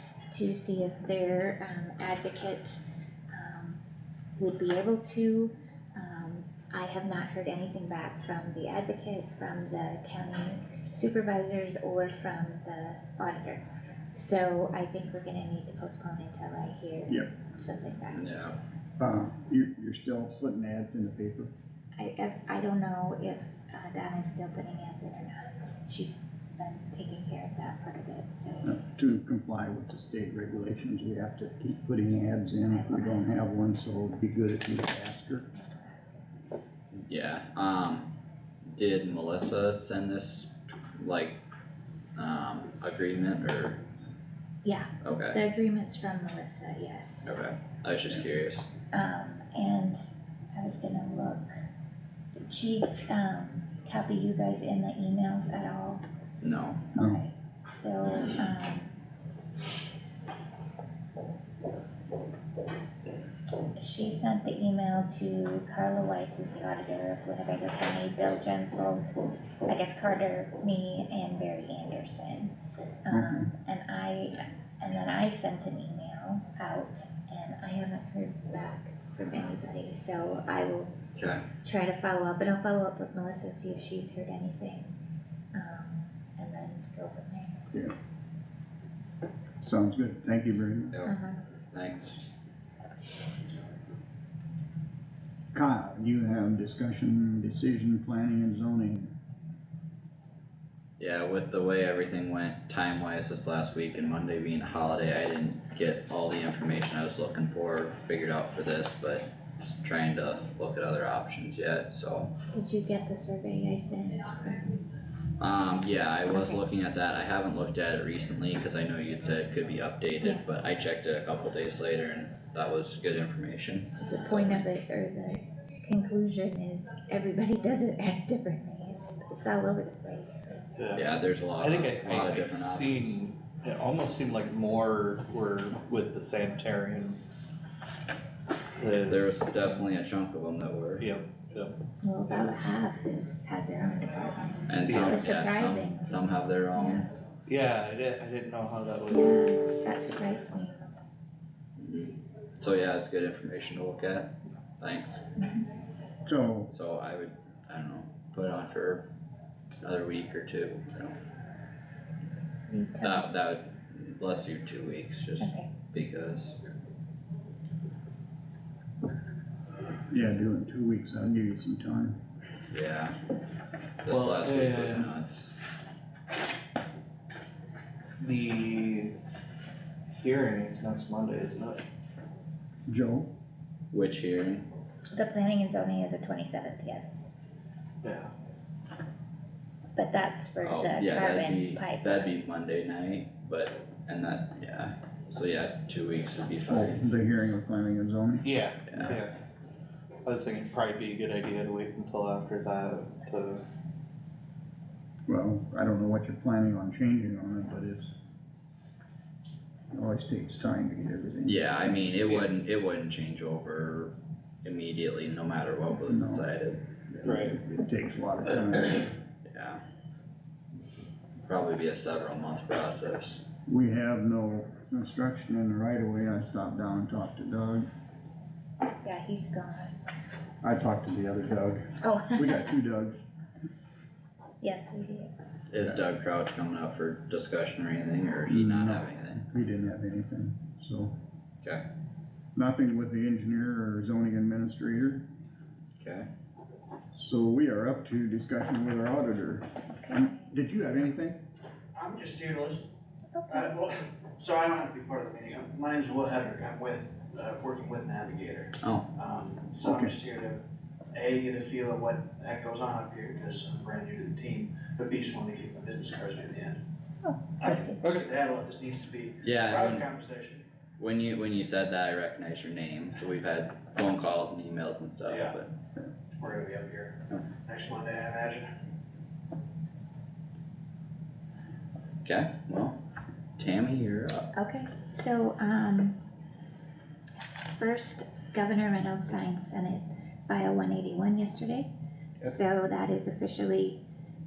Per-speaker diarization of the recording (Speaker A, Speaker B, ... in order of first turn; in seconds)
Speaker A: 0.3-3.8, 4.4-18.3, 22.0-28.8, 32.7-33.4, 35.5-36.3, 44.6-47.4, 48.9-51.5, 52.3-56.0, 57.0-59.0, 63.8-81.0, 81.6-85.0, 85.5-87.7, 91.0-91.4, 112.5-114.7, 116.3-116.6, 124.0-130.8, 142.0-147.1, 149.1-150.9, 162.7-163.3, 165.4-165.7, 185.1-187.2, 189.9-192.3, 229.0-230.0, 232.0-232.7, 234.6-235.3, 250.1-250.5, 253.3-253.7, 267.2-268.0, 284.5-286.2, 287.7-291.9, 292.4-294.0
Speaker B: 18.1-18.6, 36.9-38.1, 38.7-41.4, 42.2-43.8, 45.0-45.4, 47.2-48.7, 56.4-56.8, 81.2-81.4, 91.7-92.2, 101.0-112.3, 115.4-124.7, 130.9-133.2, 139.1-141.1, 144.7-147.1, 151.8-155.2, 156.7-159.1, 159.8-161.1, 163.0-166.6, 172.7-173.2, 174.0-175.5, 183.9-184.7, 190.6-197.0, 198.9-199.2, 211.4-216.8, 219.5-219.8, 221.4-223.4, 235.7-239.4, 246.0-246.3, 258.8-259.1, 269.4-270.1, 271.0-275.7, 282.2-283.0, 283.6-284.5
Speaker C: 19.0-21.5, 28.6-35.5, 57.0-57.2, 73.1-73.5, 89.6-91.0, 95.5-99.1, 156.2-156.7, 170.1-172.2, 182.9-183.3, 196.7-199.2, 205.3-208.1, 209.9-211.9, 216.0-216.5, 217.1-219.2, 223.7-227.8, 230.6-233.2, 238.5-241.1, 242.6-245.2, 247.1-251.4, 259.8-260.1
Speaker D: 130.8-131.0, 131.6-137.2, 138.8-139.2, 141.0-141.8, 147.5-149.2, 174.1-175.1, 178.2-179.2, 180.1-181.8, 188.0-188.3, 198.4-199.3, 200.2-203.6, 217.2-217.5
Speaker E: 251.9-252.9, 253.5-260.6, 261.1-266.8, 267.6-270.6, 275.2-275.6, 276.4-278.7